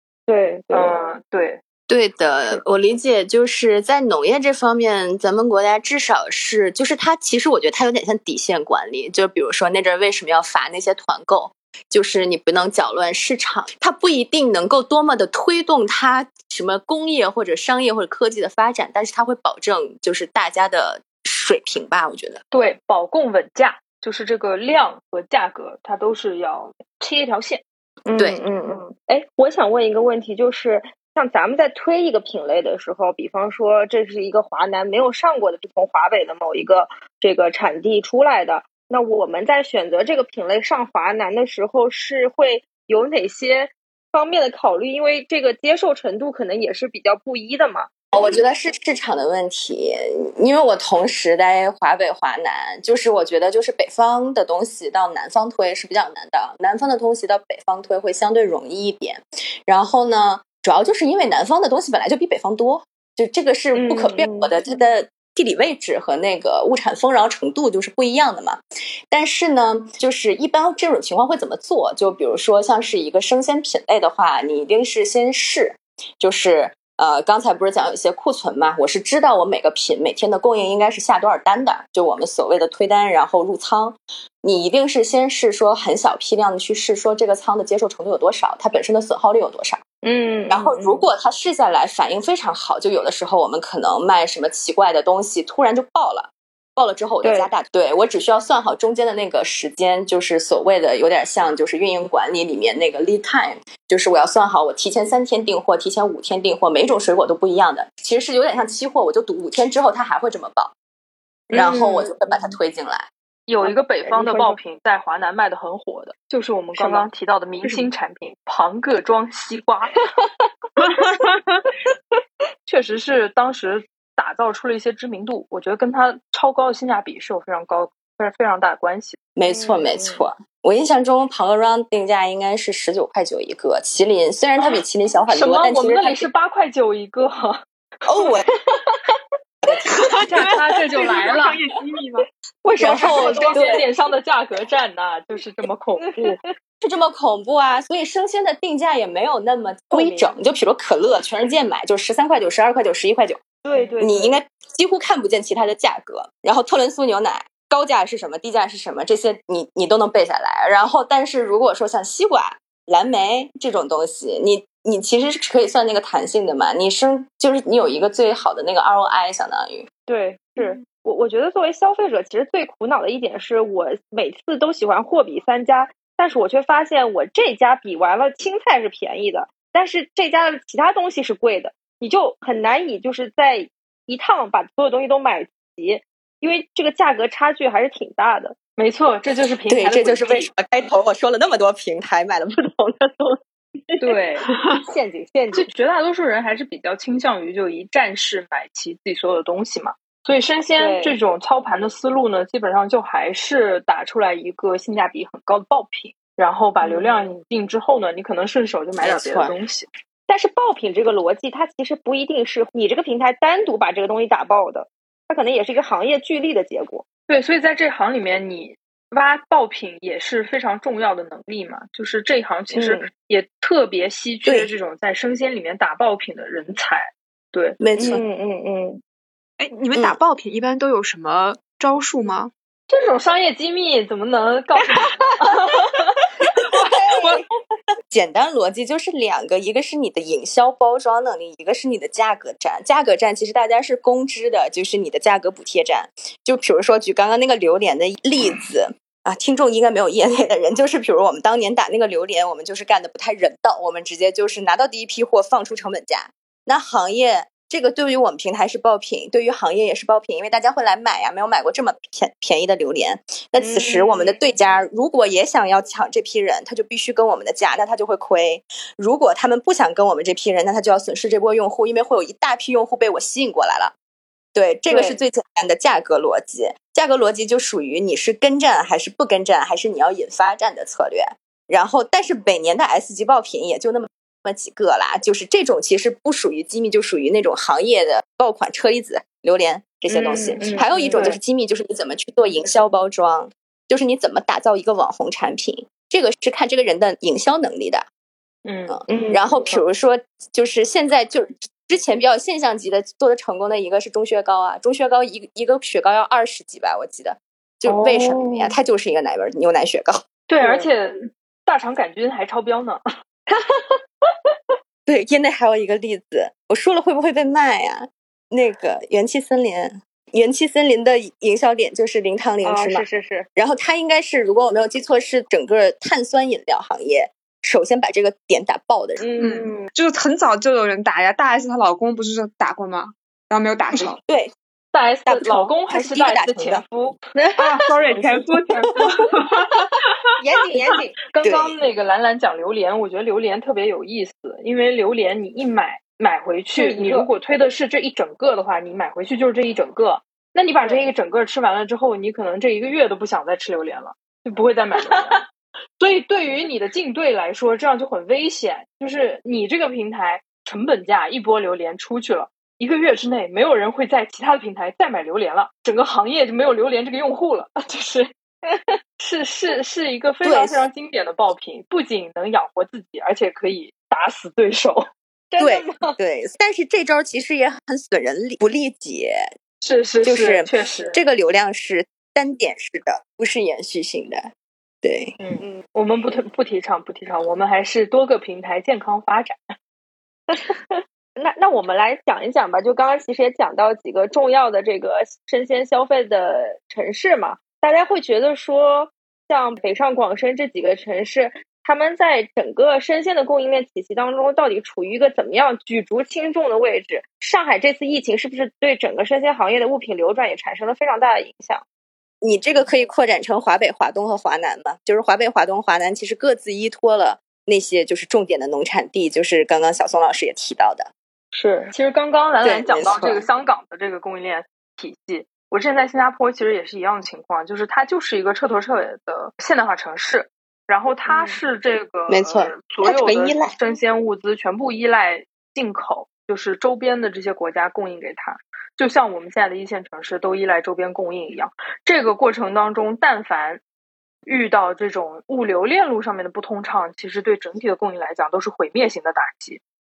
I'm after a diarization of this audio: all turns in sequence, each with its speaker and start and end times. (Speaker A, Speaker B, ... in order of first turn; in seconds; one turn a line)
Speaker A: 0.3-0.9
Speaker B: 0.7-1.6
Speaker C: 1.9-22.4
Speaker B: 22.5-27.6
Speaker A: 28.1-47.9
Speaker C: 48.1-89.8
Speaker A: 63.7-64.5
Speaker A: 90.0-91.0
Speaker C: 90.5-110.7
Speaker A: 97.2-97.5
Speaker A: 111.5-112.1
Speaker C: 111.5-113.1
Speaker B: 113.5-120.0
Speaker A: 113.6-114.6
Speaker A: 116.8-117.0
Speaker D: 120.8-121.3
Speaker B: 122.6-129.2
Speaker C: 129.3-136.3
Speaker A: 129.5-130.2
Speaker B: 135.3-137.6
Speaker C: 138.1-138.5
Speaker C: 139.6-140.2
Speaker B: 140.1-141.6
Speaker D: 140.2-142.3
Speaker A: 142.6-143.9
Speaker C: 142.8-143.5
Speaker B: 142.8-146.4
Speaker A: 146.0-146.3
Speaker C: 146.8-153.4
Speaker A: 149.9-150.3
Speaker A: 153.6-154.4
Speaker C: 154.0-169.9
Speaker A: 170.1-188.6
Speaker B: 188.8-190.5
Speaker C: 189.7-194.0
Speaker B: 194.0-194.5
Speaker A: 194.9-195.7
Speaker B: 195.5-209.9
Speaker A: 200.8-201.2
Speaker A: 206.8-207.3
Speaker C: 209.0-209.5
Speaker A: 210.3-217.0
Speaker B: 217.3-227.8
Speaker A: 222.7-223.1
Speaker C: 224.4-224.7
Speaker C: 227.8-228.2
Speaker A: 228.0-229.0
Speaker D: 229.6-232.5
Speaker B: 232.9-236.2
Speaker D: 236.7-237.4
Speaker C: 236.8-237.4
Speaker C: 238.1-273.9
Speaker A: 263.6-264.3
Speaker C: 274.5-298.1
Speaker A: 274.9-275.2
Speaker B: 290.1-291.4
Speaker A: 290.1-291.4
Speaker B: 298.6-299.0
Speaker C: 298.9-310.2
Speaker A: 299.1-299.8
Speaker A: 307.9-308.7
Speaker B: 310.5-313.0
Speaker A: 310.6-310.9
Speaker C: 315.1-329.2
Speaker A: 322.6-323.5
Speaker A: 329.2-329.9
Speaker D: 329.4-334.2
Speaker C: 334.1-334.5
Speaker B: 334.9-337.2
Speaker C: 335.3-336.8
Speaker A: 337.4-337.6
Speaker D: 337.6-339.9
Speaker A: 340.4-341.1
Speaker B: 341.3-355.4
Speaker C: 341.4-341.7
Speaker A: 346.8-347.3
Speaker A: 350.8-351.1
Speaker B: 356.0-368.3
Speaker A: 368.7-369.0
Speaker B: 369.2-375.1
Speaker C: 370.4-370.8
Speaker A: 375.5-376.2
Speaker C: 375.6-379.5
Speaker B: 379.8-381.2
Speaker C: 380.2-384.5
Speaker C: 385.0-385.4
Speaker B: 385.4-389.6
Speaker A: 390.5-411.8
Speaker C: 412.4-421.1
Speaker A: 421.5-421.9
Speaker B: 421.9-443.8
Speaker C: 422.6-423.4
Speaker A: 431.3-431.6
Speaker C: 432.3-433.7
Speaker B: 444.4-449.8